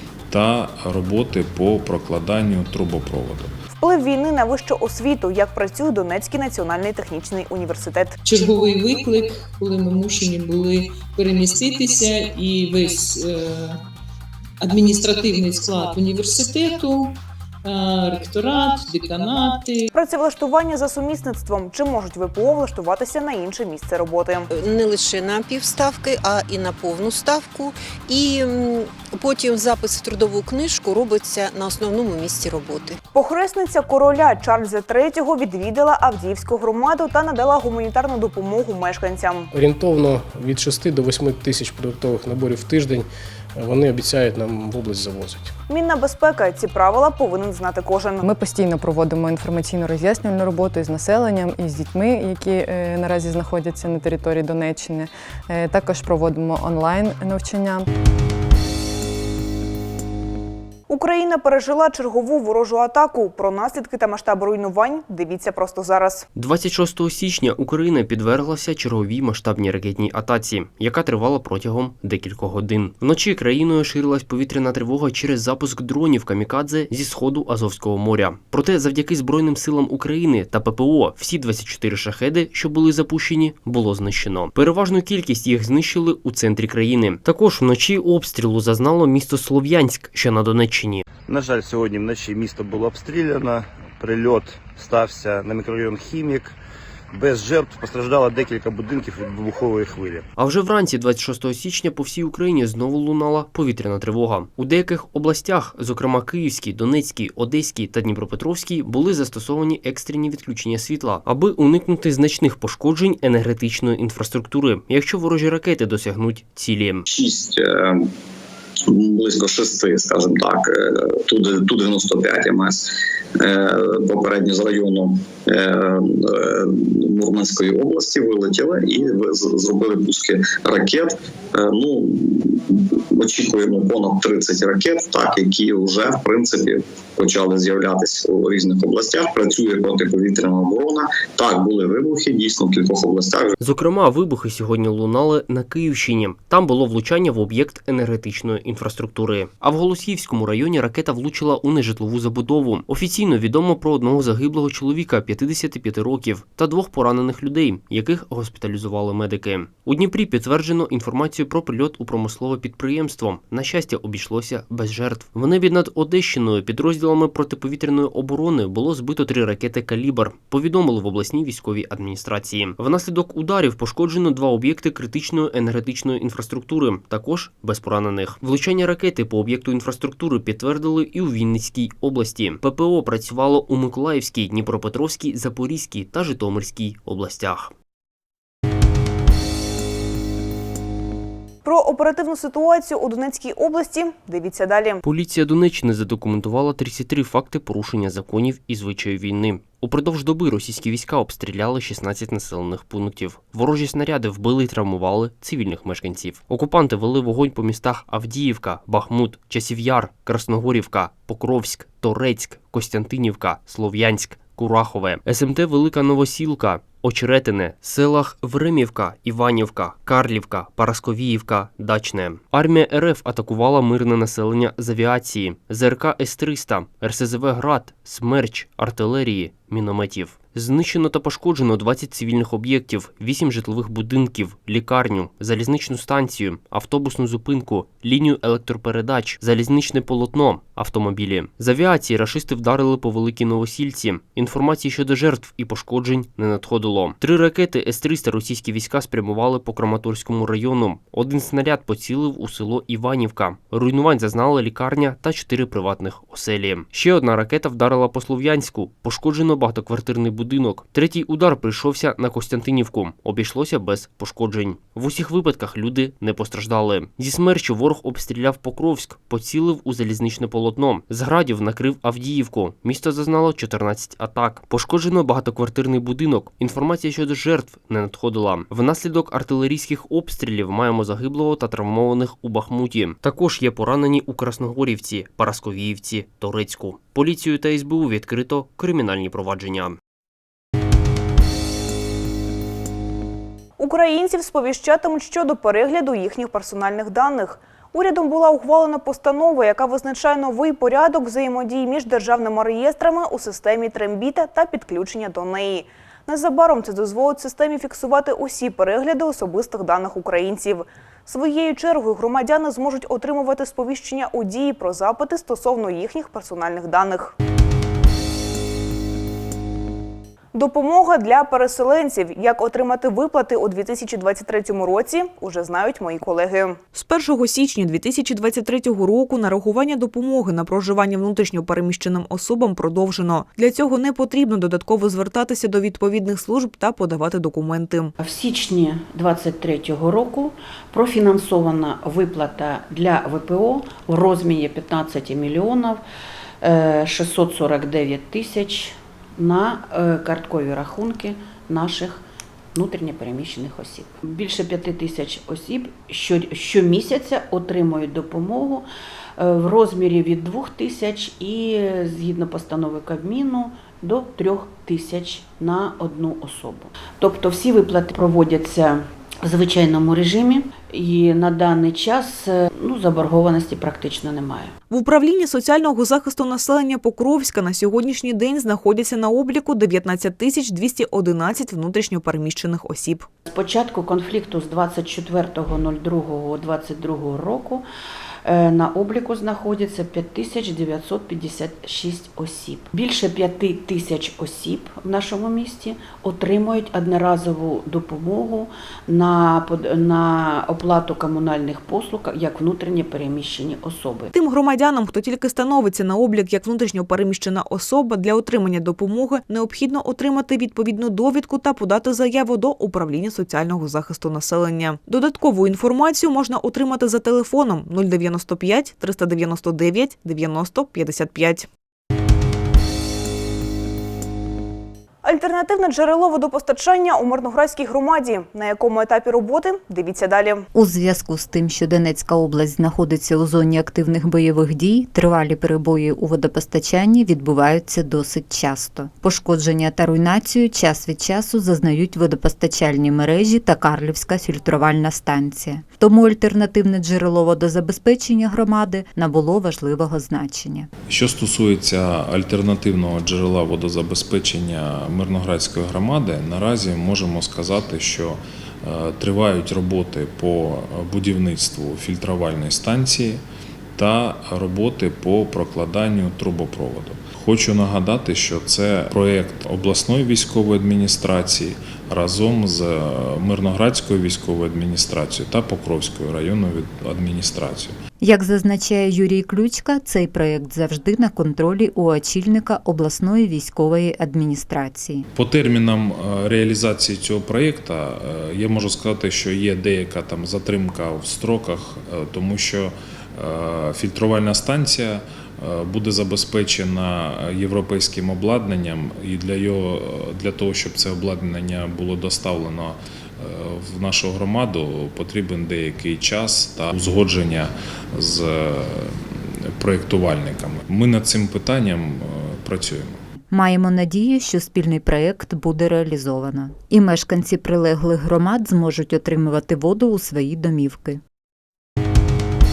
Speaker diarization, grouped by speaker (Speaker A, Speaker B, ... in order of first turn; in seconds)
Speaker A: 0.3-3.5, 451.1-463.4, 463.9-477.9, 485.3-513.2
Speaker B: 3.8-8.2, 19.9-24.5, 33.1-39.5, 45.7-48.2, 60.9-66.2, 191.6-195.0, 293.8-317.3, 320.5-338.1, 374.9-383.3, 404.3-421.7, 425.2-430.7
Speaker C: 8.2-13.8, 14.6-19.9
Speaker D: 24.5-33.0
Speaker E: 39.5-45.5
Speaker F: 48.2-57.9
Speaker G: 66.3-91.0, 100.4-117.0, 143.6-187.7, 195.0-290.0
Speaker H: 91.3-96.5, 97.1-100.2
Speaker I: 117.1-118.1, 118.9-122.8, 123.4-143.5
Speaker J: 338.2-346.0, 346.6-358.9, 359.4-374.7, 383.4-387.8, 388.4-404.3
Speaker K: 430.7-450.9, 478.2-485.3, 513.5-521.2